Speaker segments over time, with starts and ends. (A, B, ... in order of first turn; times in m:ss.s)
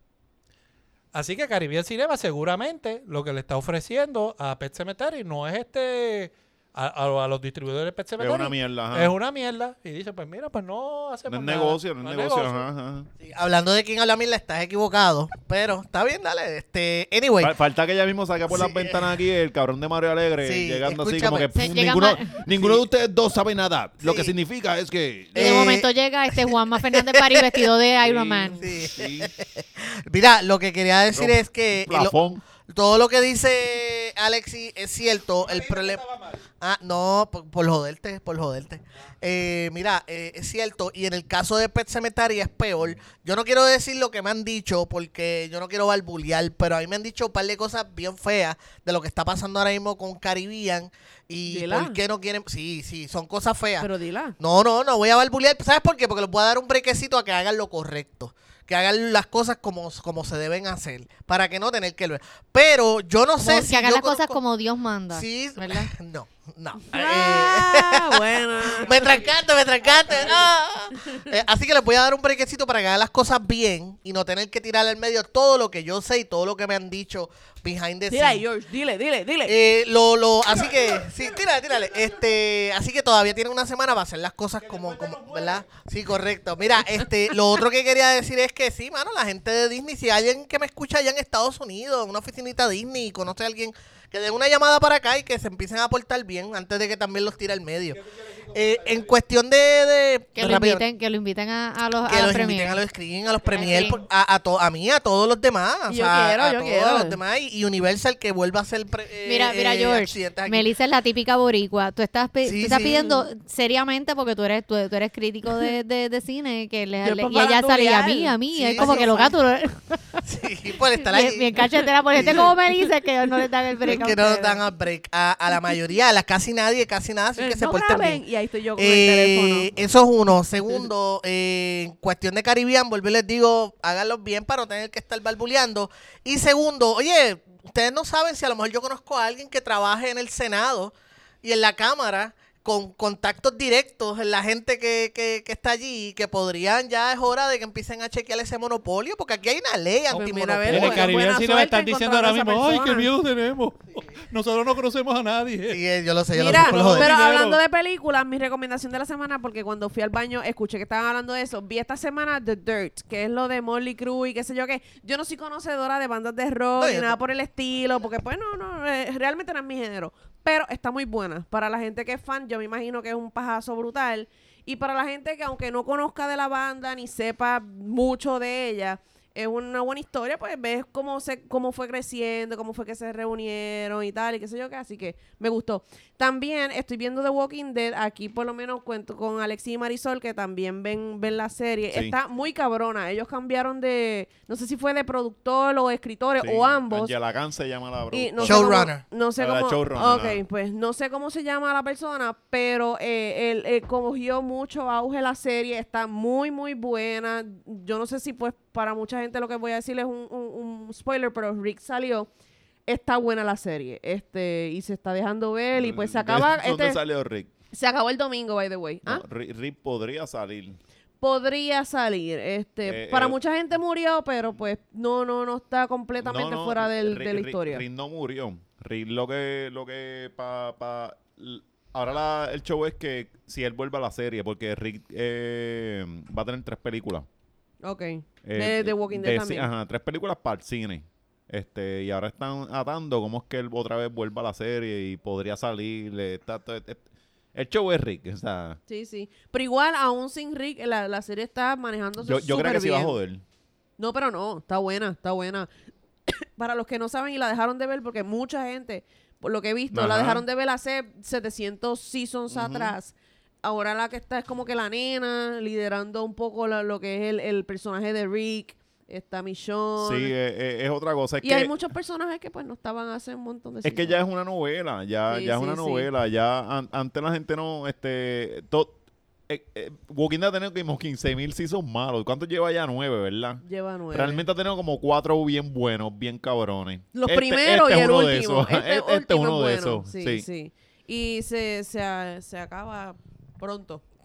0:01.1-0:12.6 A
0:08.2-0:09.1 B
0:11.3-0:13.1 B
0:13.2-0:17.5 C
0:17.4-0:25.8 B
0:18.5-0:19.2 C
0:20.4-0:21.6 C
0:21.6-0:22.4 D
0:22.4-0:22.8 C
0:24.0-0:24.3 C
0:25.3-0:27.7 C
0:25.4-0:28.6 D
0:28.0-0:29.3 B
0:28.6-0:36.0 C
0:31.1-0:32.4 B
0:35.4-0:36.4 A
0:36.6-1:04.4 C
0:51.5-0:52.0 E
0:53.8-0:54.3 E
1:03.4-1:05.9 D
1:05.1-1:18.4 C
1:06.9-1:09.2 E
1:18.1-1:19.6 E
1:19.4-1:40.8 C
1:24.7-1:25.6 A
1:38.0-1:39.1 A
1:40.4-1:42.8 D
1:42.0-1:50.7 C
1:43.5-1:44.0 D
1:45.9-1:47.2 E
1:49.2-2:00.2 D
1:52.4-1:53.2 C
1:57.0-1:59.3 E
1:58.5-1:59.3 C
2:00.2-2:02.5 C
2:01.0-2:04.6 D
2:03.8-2:08.2 C
2:07.4-2:09.7 E
2:08.8-2:31.2 C
2:30.1-2:33.1 E
2:30.7-2:35.8 A
2:35.7-2:37.1 C
2:36.3-3:17.1 E
2:36.4-2:37.6 A
2:46.8-2:47.1 C
3:16.4-3:20.4 B
3:18.1-3:32.3 E
3:18.4-3:19.0 C
3:32.9-3:37.0 E
3:35.7-3:37.5 B
3:37.7-3:39.2 E
3:39.0-3:40.8 B
3:41.2-3:47.8 E
3:42.8-3:43.4 B
3:46.2-3:57.3 B
3:57.8-3:59.7 E
3:58.4-4:07.0 B
4:07.6-4:08.8 B
4:08.9-4:13.1 E
4:12.2-4:13.4 B
4:14.0-4:15.7 E
4:16.3-4:30.3 E
4:19.9-4:20.4 B
4:22.5-4:22.9 B
4:30.0-4:31.7 B
4:31.4-4:34.2 E
4:33.8-4:39.0 B
4:35.3-4:36.1 E
4:39.5-4:50.5 B
4:43.6-4:44.4 E
4:47.1-4:54.0 E